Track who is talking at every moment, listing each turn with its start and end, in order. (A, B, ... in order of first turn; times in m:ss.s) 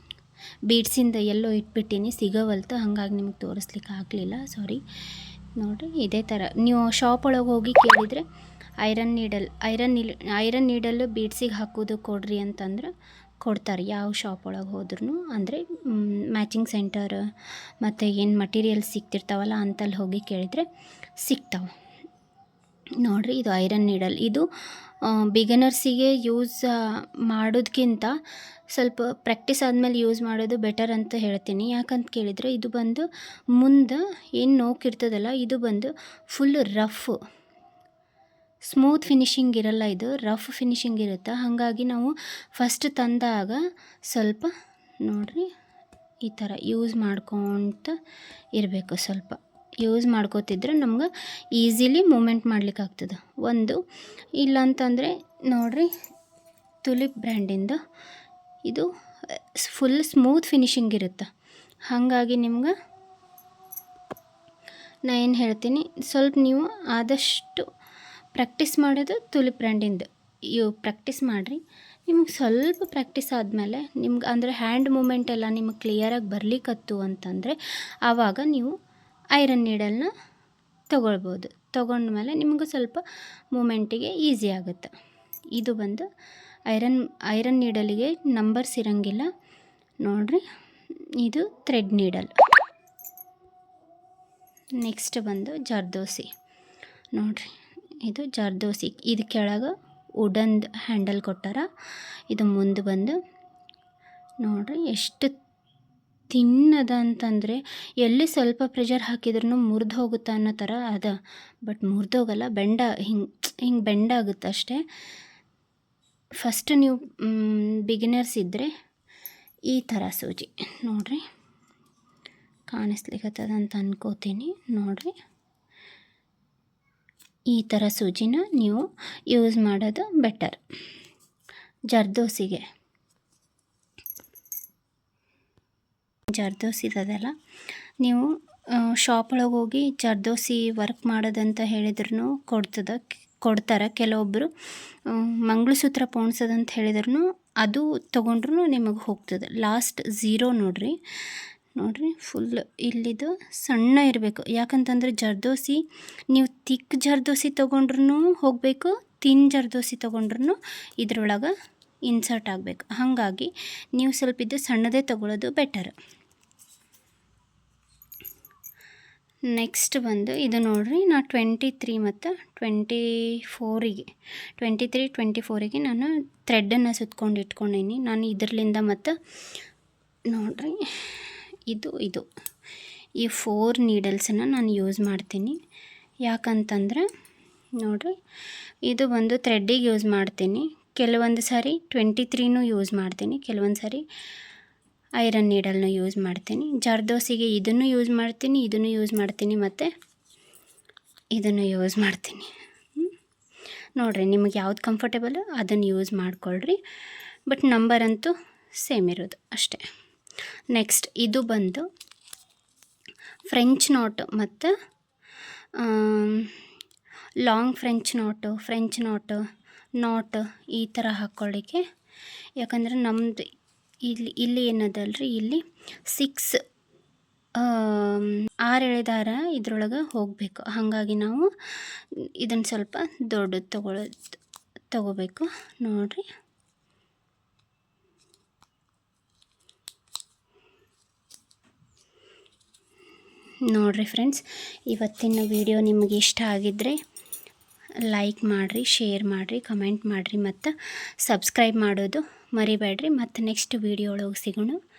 0:00.7-0:04.8 A
0:05.6-0:08.2 A
0:08.8-0:12.9 A
0:13.4-0:17.3 A
0:17.8-0:20.7 A
0:21.2-0:21.7 A
0:23.0-0:24.5 A
0:25.0-0:28.2 A
0:28.7-0:37.2 A
0:38.6-0:44.5 A
0:45.0-0:45.5 A
0:46.2-0:48.0 A
0:48.6-0:53.8 A
0:54.4-0:55.9 A
0:56.8-0:57.8 A
0:58.6-1:01.3 A
1:01.9-1:02.7 A
1:05.1-1:07.7 A
1:08.4-1:18.7 A
1:19.4-1:20.1 A
1:20.9-1:24.9 A
1:25.6-1:26.1 A
1:26.7-1:29.3 A
1:30.0-1:30.4 A
1:31.2-1:32.4 A
1:34.8-1:36.3 A
1:37.1-1:37.5 A
1:38.0-1:41.7 A
1:42.3-1:43.2 A
1:44.4-1:45.3 A
1:46.3-1:54.8 A
1:56.4-1:58.7 A
1:59.7-2:01.2 A
2:02.7-2:05.1 A
2:07.5-2:10.6 A
2:11.9-2:12.7 A
2:16.3-2:17.3 A
2:18.0-2:18.3 A
2:18.8-2:24.5 A
2:25.1-2:41.5 A
2:42.1-2:46.0 A
2:49.5-2:54.1 A
2:54.6-2:59.2 A
3:00.3-3:02.3 A
3:03.2-3:05.6 A
3:06.2-3:07.0 A
3:07.8-3:08.2 A
3:08.8-3:14.0 A
3:15.2-3:19.9 A
3:21.4-3:23.1 A
3:24.0-3:26.8 A
3:27.5-3:29.9 A
3:30.7-3:31.9 A
3:33.5-3:34.7 A
3:35.8-3:36.5 A
3:37.4-3:39.4 A
3:40.0-3:41.8 A
3:42.6-3:43.5 A
3:44.0-3:46.6 A
3:47.6-3:54.4 A
3:54.9-3:56.2 A
4:03.7-4:07.0 A
4:08.1-4:14.8 A